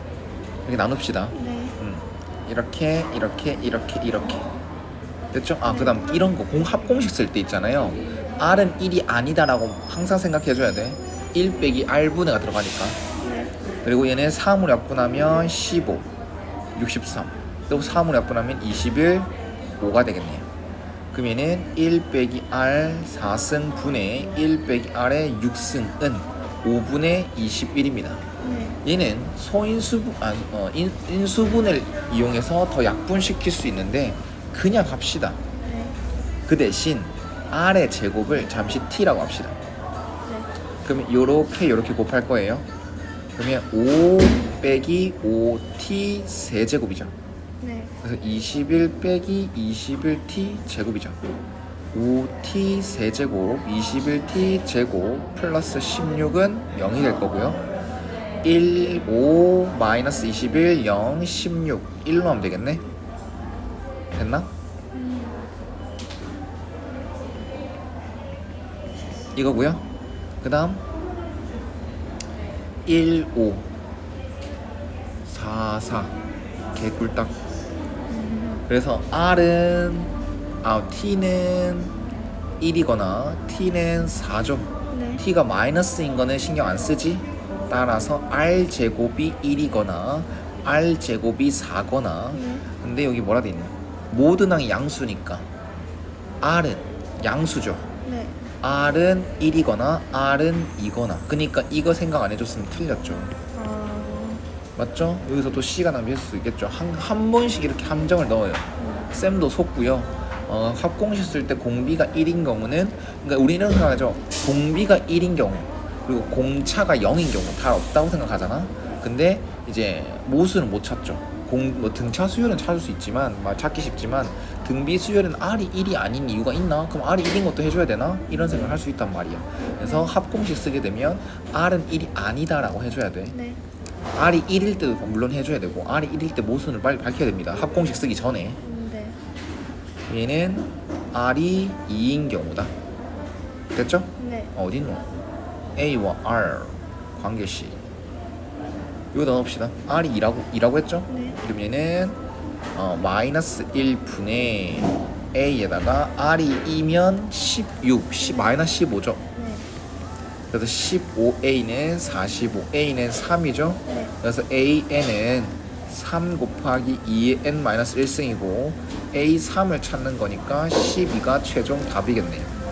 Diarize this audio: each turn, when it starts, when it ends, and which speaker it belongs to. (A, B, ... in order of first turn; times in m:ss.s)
0:00.6-0:04.5 A
0:01.3-0:01.8 B
0:05.3-0:13.0 A
0:05.6-0:06.0 B
0:13.2-0:13.5 B
0:13.8-0:16.1 A
0:16.8-0:20.5 A
0:17.7-0:18.0 B
0:21.1-0:28.2 A
0:28.4-0:28.8 B
0:28.8-0:35.4 A
0:35.6-0:36.0 B
0:36.5-0:39.6 A
0:40.2-0:40.5 B
0:40.8-0:42.6 A
0:43.4-0:47.1 A
0:47.6-0:47.9 B
0:48.0-0:51.2 A
0:51.9-0:57.6 A
0:58.4-1:02.8 A
1:04.1-1:04.5 A
1:04.9-1:05.4 B
1:09.3-1:09.8 A
1:10.4-1:10.8 A
1:12.8-1:13.7 A
1:15.2-1:16.1 A
1:16.7-1:17.4 A
1:18.1-1:18.6 B
1:18.7-1:22.0 A
1:22.6-1:35.5 A
1:24.9-1:25.2 B
1:32.3-1:32.6 B
1:36.4-1:37.9 A
1:38.0-1:38.4 B
1:38.6-1:43.3 A
1:43.5-1:44.4 B
1:44.8-2:13.4 A
1:48.8-1:49.1 B
2:08.3-2:08.8 B
2:09.6-2:10.1 B
2:13.3-2:13.6 B
2:14.1-2:18.6 A
2:18.6-2:19.2 B
2:20.1-2:22.7 A
2:23.7-2:25.0 A
2:24.2-2:24.5 B
2:25.8-2:27.8 A
2:29.1-2:32.2 A
2:31.1-2:31.4 B
2:32.7-2:39.2 A
2:39.4-2:39.7 B
2:40.5-2:52.5 A
2:43.9-2:44.1 B